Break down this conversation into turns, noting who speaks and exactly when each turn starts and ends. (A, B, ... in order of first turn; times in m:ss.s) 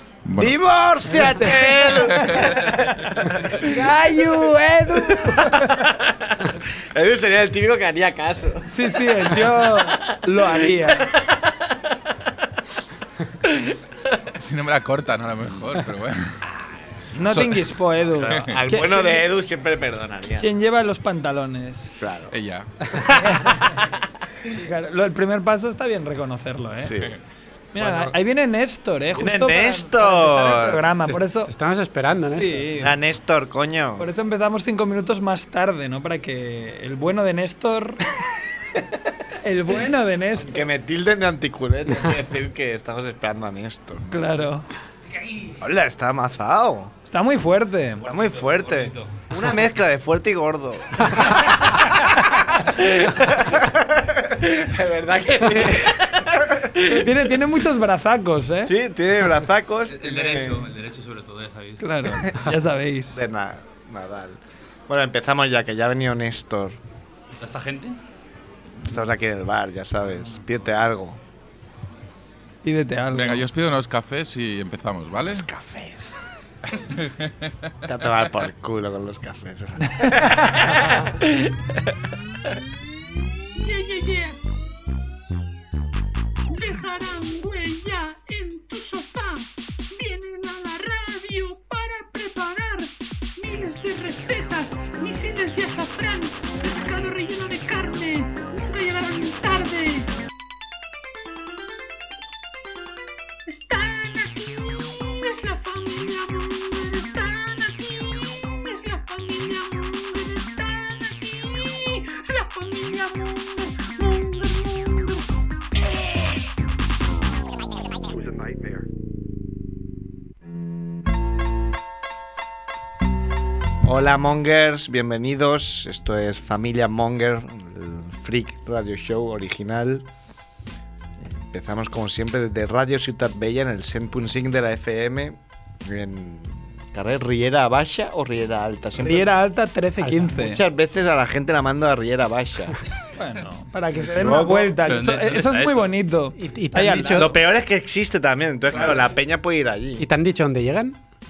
0:00.2-0:00.6 A
0:00.4-0:03.8 B
0:01.0-0:02.8 C
0:03.4-0:05.9 C
0:05.0-0:11.5 B
0:08.6-0:11.1 C
0:13.4-0:14.2 B
0:14.4-0:16.4 A
0:17.2-0:19.2 C
0:17.2-0:17.7 A
0:18.0-0:20.5 B
0:20.4-0:21.9 C
0:22.0-0:22.3 B
0:22.3-0:22.8 A
0:22.9-0:24.0 B
0:23.1-0:23.9 C
0:24.4-0:26.9 C
0:26.8-0:27.2 B
0:27.7-0:31.5 C
0:27.8-0:28.1 B
0:29.1-0:31.0 B
0:31.4-0:32.8 D
0:32.3-0:32.9 C
0:32.8-0:34.1 B
0:34.0-0:38.0 C
0:39.4-0:40.6 C
0:40.4-0:44.5 B
0:44.1-0:44.7 C
0:45.6-0:46.9 B
0:47.1-0:48.0 C
0:48.0-0:57.0 B
0:48.0-0:49.2 E
0:55.5-0:56.0 C
0:56.7-0:58.7 C
0:58.6-1:00.7 B
0:59.9-1:01.8 E
1:01.8-1:03.2 C
1:02.2-1:02.5 B
1:03.1-1:06.8 B
1:07.3-1:08.0 E
1:08.8-1:11.2 B
1:12.6-1:13.4 C
1:13.1-1:15.5 A
1:15.2-1:16.1 B
1:17.0-1:17.5 A
1:17.8-1:21.2 B
1:20.0-1:20.5 C
1:21.2-1:21.5 C
1:23.7-1:24.4 F
1:23.7-1:24.2 C
1:26.5-1:32.8 F
1:26.6-1:28.8 C
1:30.0-1:32.6 C
1:33.4-1:39.9 C
1:33.4-1:40.0 F
1:43.5-1:55.2 F
1:45.7-1:46.2 C
2:03.8-2:10.0 B
2:11.2-2:19.3 B
2:19.0-2:20.6 C
2:20.0-2:20.3 D
2:20.2-2:22.8 B
2:23.2-2:27.3 C
2:24.1-2:24.8 B
2:24.8-2:25.9 E
2:26.4-2:27.4 D
2:27.1-2:30.0 B
2:30.0-2:31.0 D